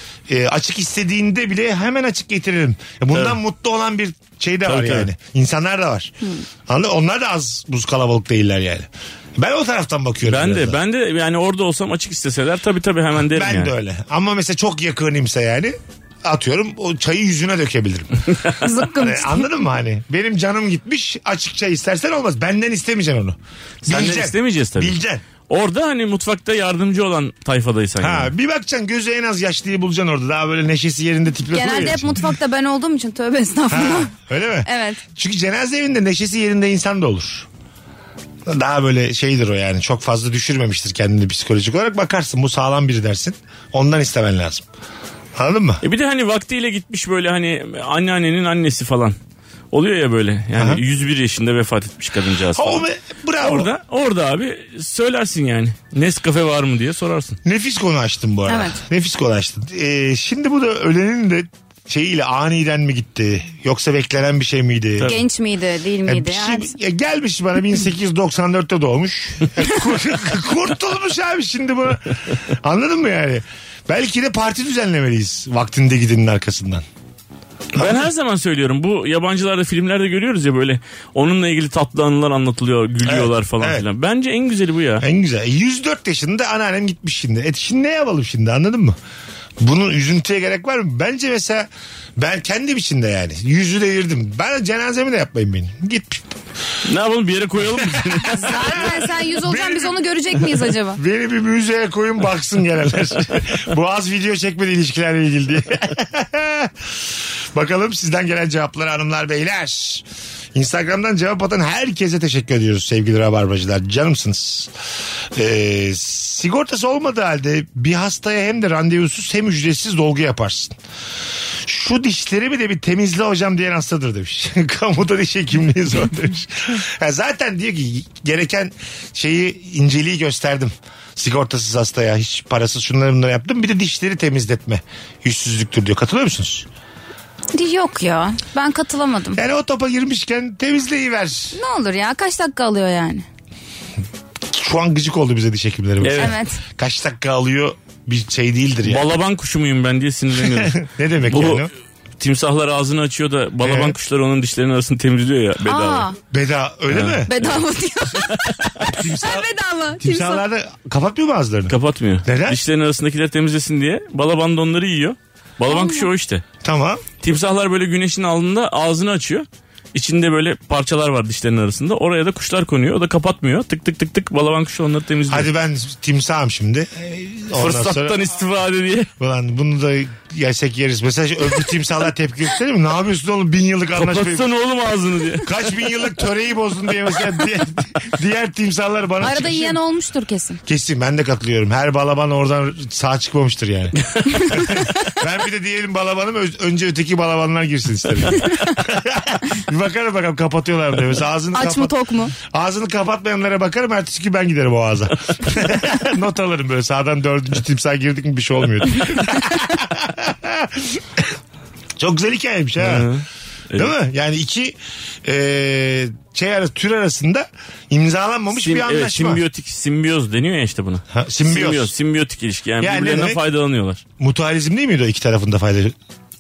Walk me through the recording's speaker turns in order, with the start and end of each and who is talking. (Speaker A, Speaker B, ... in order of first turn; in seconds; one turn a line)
Speaker A: 0.3-6.2
Speaker B: 4.7-5.1
Speaker A: 6.7-10.8
Speaker B: 10.3-13.7
Speaker A: 13.2-18.3
Speaker C: 18.6-19.5
Speaker A: 19.0-25.2
Speaker B: 23.8-25.0
Speaker B: 25.5-28.3
Speaker A: 28.0-32.3
Speaker C: 31.5-34.1
Speaker A: 33.7-37.5
Speaker C: 34.6-35.0
Speaker A: 38.5-44.6
Speaker A: 45.4-45.8
Speaker B: 45.8-49.2
Speaker B: 49.7-52.9
Speaker A: 50.6-50.8
Speaker A: 52.5-53.7
Speaker B: 53.4-57.4
Speaker A: 57.5-65.2
Speaker C: 58.5-58.8
Speaker C: 65.0-66.7
Speaker A: 66.1-76.8
Speaker B: 77.8-85.0
Speaker A: 83.0-83.8
Speaker A: 85.0-89.0
Speaker A: 89.6-96.4
Speaker B: 96.8-98.8
Speaker A: 97.8-106.7
Speaker C: 98.3-101.0
Speaker A: 107.5-114.7
Speaker A: 115.3-120.8
Speaker A: 121.7-136.7
Speaker C: 137.5-139.4
Speaker A: 139.3-141.6
Speaker C: 141.5-143.2
Speaker A: 144.5-149.0
Speaker B: 146.0-146.3
Speaker C: 146.2-146.6
Speaker B: 148.9-156.1
Speaker A: 150.4-151.7
Speaker A: 153.6-154.0
Speaker C: 155.7-156.2
Speaker A: 156.3-157.3
Speaker B: 156.9-157.6
Speaker C: 157.3-160.4
Speaker A: 158.9-159.5
Speaker A: 160.0-161.7
Speaker B: 161.7-166.4
Speaker A: 162.2-162.6
Speaker C: 165.7-166.1
Speaker A: 166.6-167.0
Speaker B: 167.2-175.5
Speaker A: 175.3-178.2
Speaker B: 177.6-179.1
Speaker A: 179.2-184.5
Speaker B: 184.0-185.5
Speaker A: 185.4-189.8
Speaker C: 189.2-190.6
Speaker A: 190.7-194.0
Speaker A: 194.5-211.3
Speaker C: 201.5-202.3
Speaker A: 212.0-213.1
Speaker B: 212.8-213.9
Speaker A: 213.8-219.4
Speaker B: 218.6-224.0
Speaker A: 221.1-221.9
Speaker A: 222.8-223.4
Speaker A: 224.2-225.9